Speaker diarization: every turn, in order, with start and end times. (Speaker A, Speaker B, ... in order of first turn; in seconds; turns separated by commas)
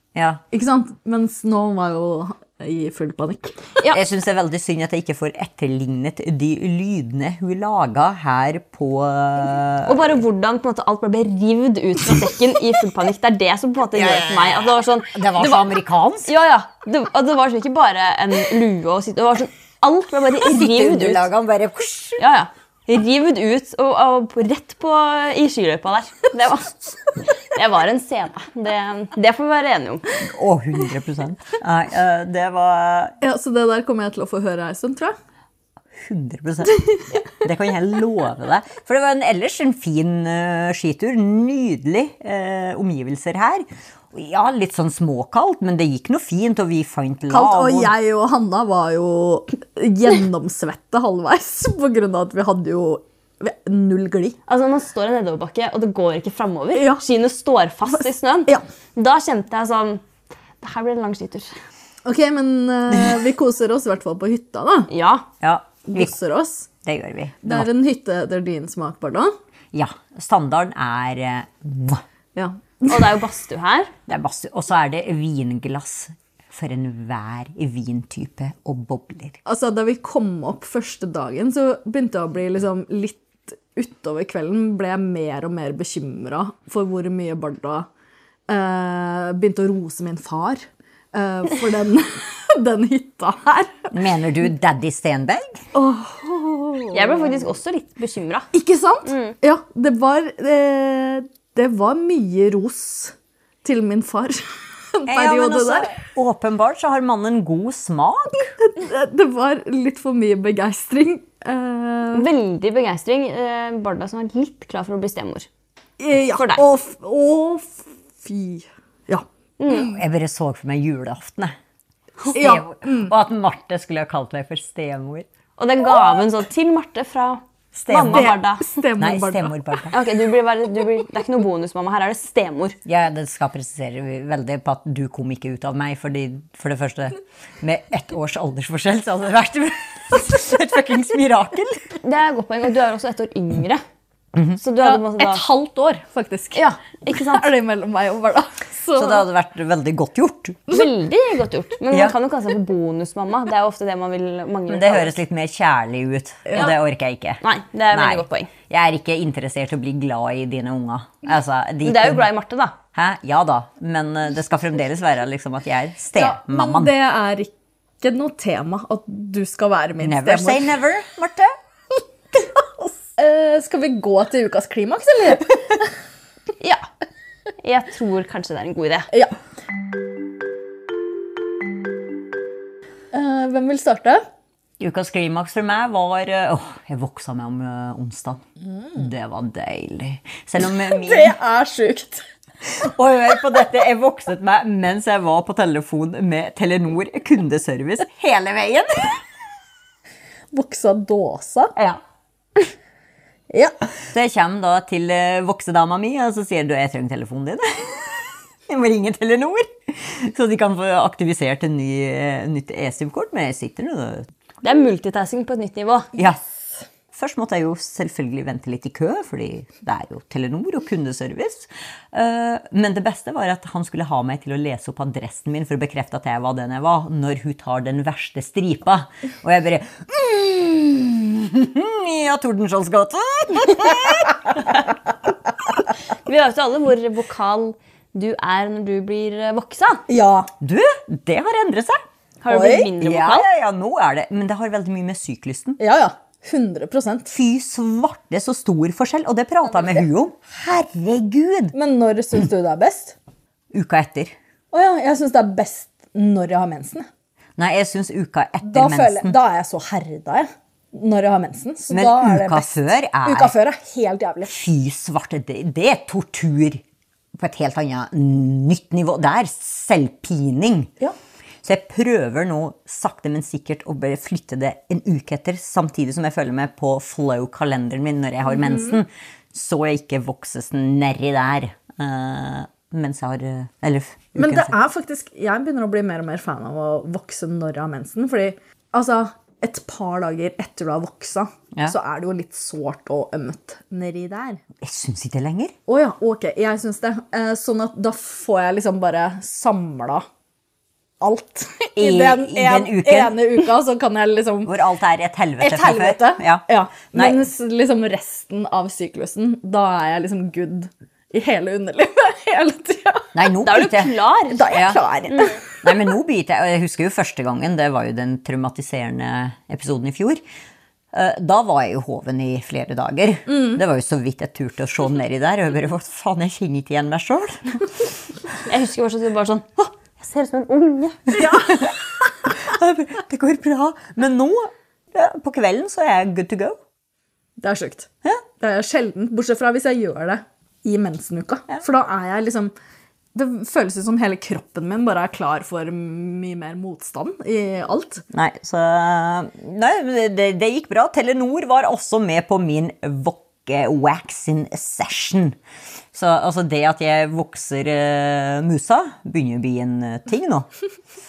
Speaker A: 0.1-0.4, Speaker B: 0.5-3.7, Speaker A: 3.9-10.0, Speaker C: 9.8-15.7, Speaker A: 13.9-16.3, Speaker C: 16.2-21.3, Speaker A: 20.4-22.2, Speaker C: 22.2-26.8, Speaker C: 27.4-30.0, Speaker A: 30.2-33.1, Speaker B: 33.2-35.1, Speaker A: 35.9-47.9, Speaker B: 47.3-54.4, Speaker C: 54.5-60.0, Speaker B: 56.7-57.0, Speaker C: 60.6-61.5, Speaker B: 62.0-64.9, Speaker C: 64.9-65.3, Speaker A: 65.4-66.1, Speaker B: 65.9-66.7, Speaker A: 66.8-67.7, Speaker B: 67.4-69.3, Speaker A: 69.7-72.0, Speaker B: 72.3-73.1, Speaker C: 72.9-73.9, Speaker A: 74.1-79.4, Speaker B: 79.5-87.9, Speaker B: 88.5-93.9, Speaker A: 93.9-95.6, Speaker B: 95.7-97.4, Speaker C: 96.9-98.5, Speaker B: 98.5-105.9, Speaker C: 99.0-99.3, Speaker A: 105.0-108.5, Speaker B: 108.6-112.3, Speaker C: 112.1-115.5, Speaker B: 116.0-119.2, Speaker C: 116.3-116.6, Speaker C: 119.6-120.0, Speaker A: 119.7-121.5, Speaker B: 122.3-123.1, Speaker A: 122.3-125.3, Speaker C: 125.6-128.7, Speaker A: 127.7-128.3, Speaker B: 128.1-129.6, Speaker A: 129.0-129.9, Speaker C: 129.9-132.8, Speaker A: 132.8-141.9, Speaker C: 142.0-143.8, Speaker C: 144.6-145.4, Speaker B: 144.8-149.2, Speaker C: 146.5-147.5, Speaker A: 148.9-150.7, Speaker C: 150.7-155.2, Speaker A: 154.7-162.3, Speaker B: 156.5-156.7, Speaker C: 157.4-158.5, Speaker C: 161.8-162.8, Speaker A: 162.9-166.9, Speaker B: 166.1-170.7, Speaker A: 170.0-171.5, Speaker B: 172.6-175.9, Speaker C: 176.6-176.9, Speaker C: 177.6-179.1, Speaker B: 183.1-184.2, Speaker A: 184.8-188.4, Speaker A: 188.9-191.3, Speaker B: 190.8-192.2, Speaker A: 192.8-199.2, Speaker B: 200.5-201.7, Speaker A: 201.8-202.0, Speaker B: 203.5-203.7, Speaker A: 204.1-214.3, Speaker C: 214.6-216.1, Speaker A: 217.1-234.8, Speaker C: 236.2-240.0, Speaker B: 240.1-240.5, Speaker A: 240.6-242.0, Speaker C: 242.4-243.5, Speaker B: 242.5-242.9, Speaker A: 243.0-245.8, Speaker B: 245.8-247.3, Speaker A: 247.3-251.7, Speaker B: 251.7-253.1, Speaker A: 253.7-254.3, Speaker B: 254.7-257.1, Speaker A: 257.6-259.4, Speaker B: 258.6-262.7, Speaker A: 261.9-263.5, Speaker B: 263.2-264.6, Speaker A: 264.5-266.8, Speaker A: 267.3-270.9, Speaker A: 271.6-284.7, Speaker B: 278.5-279.0, Speaker B: 284.4-294.6, Speaker A: 294.8-295.7, Speaker B: 295.9-300.2, Speaker B: 301.2-304.7, Speaker A: 302.0-303.4, Speaker A: 304.6-307.4, Speaker B: 305.6-313.3, Speaker A: 313.3-314.1, Speaker C: 313.6-314.6, Speaker B: 314.5-315.9, Speaker A: 314.7-315.0, Speaker C: 315.3-315.6, Speaker A: 315.8-320.4, Speaker A: 321.1-327.9, Speaker B: 323.5-323.8, Speaker C: 328.6-331.5, Speaker B: 331.4-331.8, Speaker A: 331.4-331.9, Speaker A: 332.5-336.8, Speaker B: 337.6-338.1, Speaker B: 338.6-342.7, Speaker B: 343.3-348.2, Speaker A: 348.3-355.6, Speaker A: 356.1-360.7